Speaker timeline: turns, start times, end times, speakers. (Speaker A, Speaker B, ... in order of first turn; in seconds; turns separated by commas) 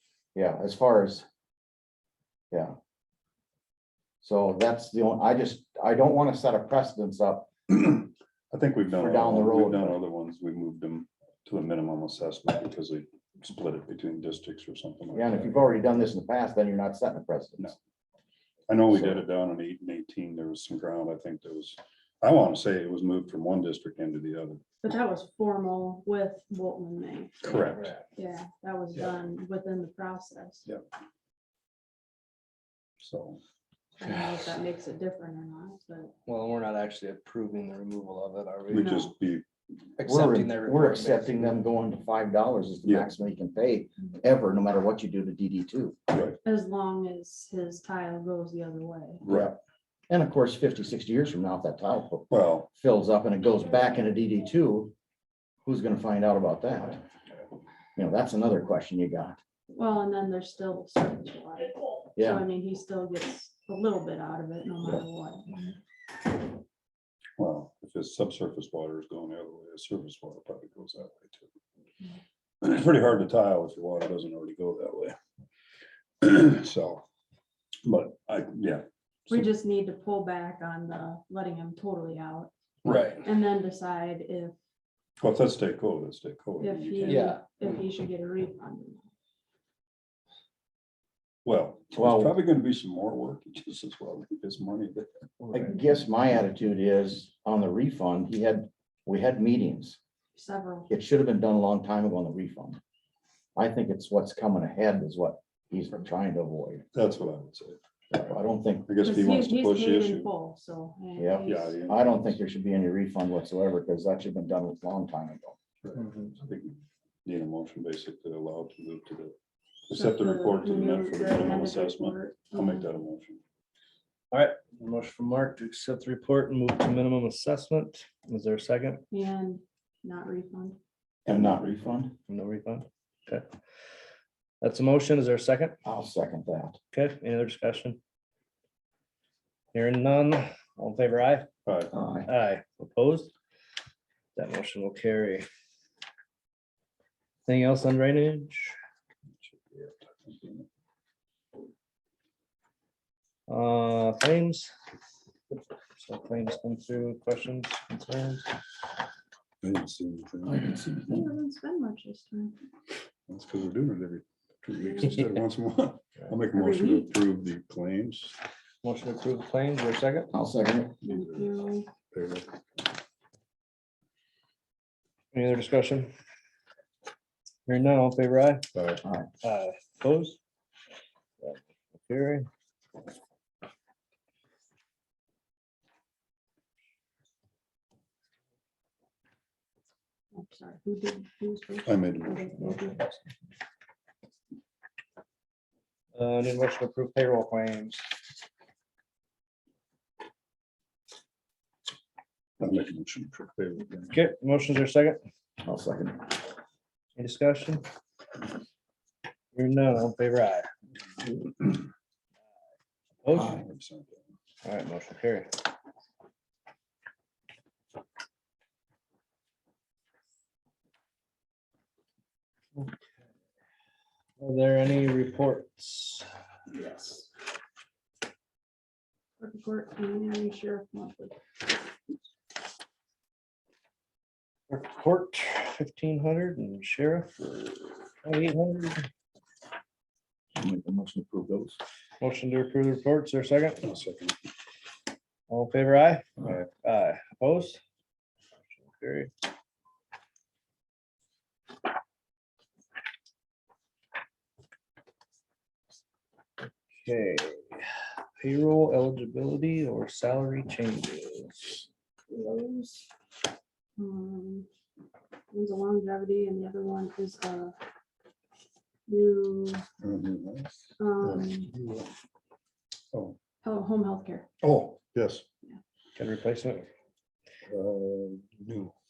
Speaker A: 0.3-1.3, Speaker A: 4.2-7.5, Speaker B: 7.7-15.6, Speaker A: 8.9-10.0, Speaker A: 15.1-17.7, Speaker B: 18.7-24.6, Speaker A: 18.9-19.2, Speaker C: 24.8-27.4, Speaker B: 27.4-27.9, Speaker D: 27.7-28.0, Speaker C: 28.1-30.7, Speaker B: 33.0-33.4, Speaker C: 34.0-36.1, Speaker D: 36.3-39.0, Speaker B: 38.7-39.5, Speaker C: 38.7-39.1, Speaker D: 40.0-41.6, Speaker A: 40.0-46.0, Speaker B: 46.1-46.4, Speaker C: 46.5-49.2, Speaker B: 49.2-49.5, Speaker A: 49.2-49.6, Speaker A: 50.1-54.9, Speaker B: 52.3-52.7, Speaker A: 55.6-57.0, Speaker A: 58.0-59.4, Speaker C: 59.7-65.8, Speaker A: 62.2-62.5, Speaker B: 67.4-71.5, Speaker B: 72.6-75.2, Speaker B: 76.2-77.0, Speaker B: 77.8-79.5, Speaker C: 79.3-84.5, Speaker B: 82.8-83.2, Speaker D: 82.9-83.2, Speaker B: 85.2-87.3, Speaker C: 86.6-89.1, Speaker D: 87.1-87.4, Speaker B: 91.4-95.1, Speaker A: 92.0-92.3, Speaker D: 95.4-95.9, Speaker A: 95.5-100.0, Speaker C: 100.3-100.9, Speaker A: 100.9-102.8, Speaker A: 103.6-106.8, Speaker B: 106.9-107.8, Speaker A: 108.1-108.9, Speaker B: 108.9-110.3, Speaker C: 109.0-111.8, Speaker A: 111.2-115.6, Speaker B: 111.5-112.4, Speaker B: 115.8-119.4, Speaker B: 119.9-123.4, Speaker C: 119.9-122.9, Speaker D: 124.3-129.0, Speaker C: 129.1-130.8, Speaker B: 131.3-132.0, Speaker A: 131.3-132.1, Speaker D: 132.3-133.5, Speaker D: 134.6-135.7, Speaker A: 135.8-136.8, Speaker D: 136.9-138.0, Speaker D: 139.7-141.5, Speaker B: 141.7-141.9, Speaker A: 141.9-142.3, Speaker D: 142.3-143.3, Speaker D: 144.4-145.4, Speaker D: 147.5-148.8, Speaker B: 149.4-150.7, Speaker D: 153.5-154.7, Speaker D: 156.0-158.5, Speaker B: 159.6-161.1, Speaker A: 160.5-160.8, Speaker C: 161.0-162.6, Speaker B: 163.3-168.4, Speaker C: 166.5-167.1, Speaker D: 168.8-170.3, Speaker A: 170.3-171.0, Speaker C: 171.0-171.9, Speaker B: 171.1-171.5, Speaker B: 172.1-172.6, Speaker D: 175.3-176.1, Speaker D: 177.7-178.6, Speaker B: 178.7-179.0, Speaker A: 179.0-179.3, Speaker D: 179.4-180.4, Speaker D: 181.4-182.5, Speaker C: 190.3-193.0, Speaker B: 191.9-192.8, Speaker D: 196.2-198.0, Speaker B: 202.6-204.2, Speaker D: 204.1-205.2, Speaker A: 205.6-206.3, Speaker D: 207.2-207.8, Speaker D: 209.6-210.7, Speaker D: 213.2-213.6, Speaker B: 213.3-214.2, Speaker D: 214.6-215.5, Speaker D: 224.4-226.2, Speaker C: 226.7-227.3, Speaker C: 229.4-231.4, Speaker D: 234.7-239.1, Speaker A: 240.6-241.8, Speaker D: 242.2-243.8, Speaker B: 243.8-244.4, Speaker D: 245.5-247.8, Speaker D: 248.8-249.3, Speaker D: 257.0-257.8, Speaker D: 258.4-263.1, Speaker C: 264.0-264.7, Speaker C: 265.5-267.8, Speaker C: 269.1-269.8, Speaker B: 270.0-272.1, Speaker C: 271.0-271.7, Speaker B: 273.1-273.4, Speaker C: 273.6-274.5, Speaker B: 274.6-275.5, Speaker D: 276.2-276.9, Speaker B: 277.7-278.9